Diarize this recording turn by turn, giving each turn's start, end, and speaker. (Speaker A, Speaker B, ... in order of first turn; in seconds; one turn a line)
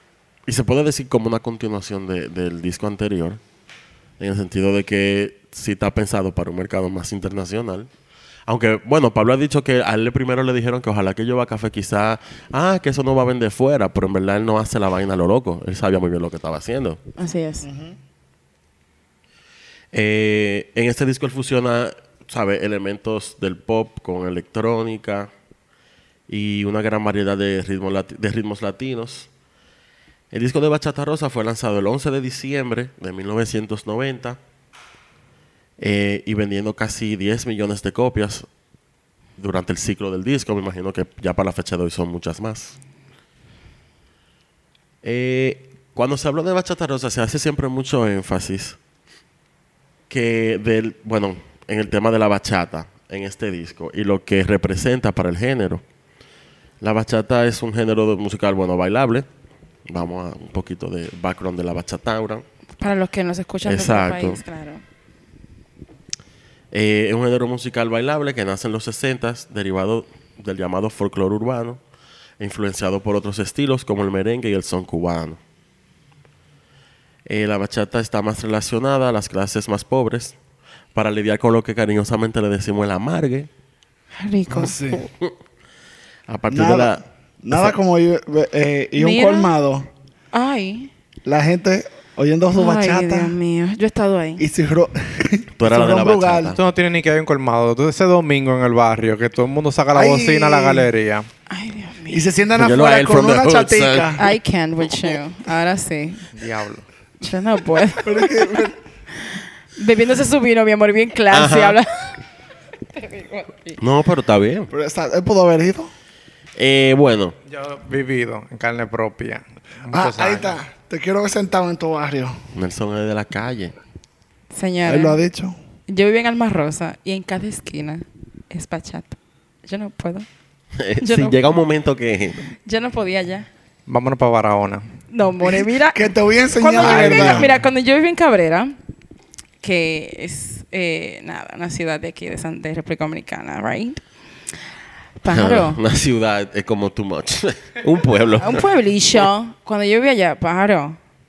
Speaker A: 0.5-3.4
Speaker A: 4.2-7.9
Speaker A: 8.5-17.0
Speaker B: 17.2-17.6
Speaker C: 17.6-18.0
Speaker A: 19.9-25.3
Speaker A: 26.3-29.3
Speaker A: 30.3-34.4
Speaker A: 35.8-38.5
Speaker A: 39.4-42.8
Speaker A: 45.0-48.8
Speaker A: 50.1-55.8
Speaker A: 56.8-59.2
Speaker A: 59.9-62.4
Speaker B: 62.8-64.8
Speaker A: 63.6-64.4
Speaker A: 66.7-71.8
Speaker A: 72.4-75.4
Speaker A: 77.2-80.3
Speaker A: 80.9-83.5
Speaker B: 84.1-84.8
Speaker C: 84.5-85.0
Speaker A: 85.0-85.3
Speaker A: 86.3-87.7
Speaker C: 86.5-89.9
Speaker B: 89.0-89.5
Speaker B: 90.3-90.9
Speaker C: 91.2-93.4
Speaker B: 92.5-94.5
Speaker C: 94.4-96.6
Speaker A: 95.6-96.6
Speaker D: 96.5-101.3
Speaker C: 99.9-100.9
Speaker B: 101.5-102.3
Speaker C: 102.1-104.2
Speaker A: 102.5-104.2
Speaker B: 104.2-106.3
Speaker D: 106.3-106.8
Speaker B: 107.2-108.6
Speaker C: 108.0-108.8
Speaker B: 109.2-112.2
Speaker A: 111.3-111.8
Speaker B: 112.9-113.8
Speaker A: 113.8-114.7
Speaker C: 114.7-115.9
Speaker A: 116.6-117.3
Speaker D: 117.5-120.5
Speaker C: 119.9-122.4
Speaker A: 122.5-123.7
Speaker B: 124.5-125.2
Speaker C: 124.8-125.5
Speaker B: 125.9-130.3
Speaker A: 130.8-132.4
Speaker B: 131.0-131.4
Speaker B: 132.6-133.5
Speaker D: 133.9-134.8
Speaker B: 135.1-138.8
Speaker C: 135.4-137.5
Speaker D: 136.8-137.4
Speaker B: 139.6-144.0
Speaker B: 145.2-145.8
Speaker A: 145.3-148.7
Speaker B: 148.4-151.0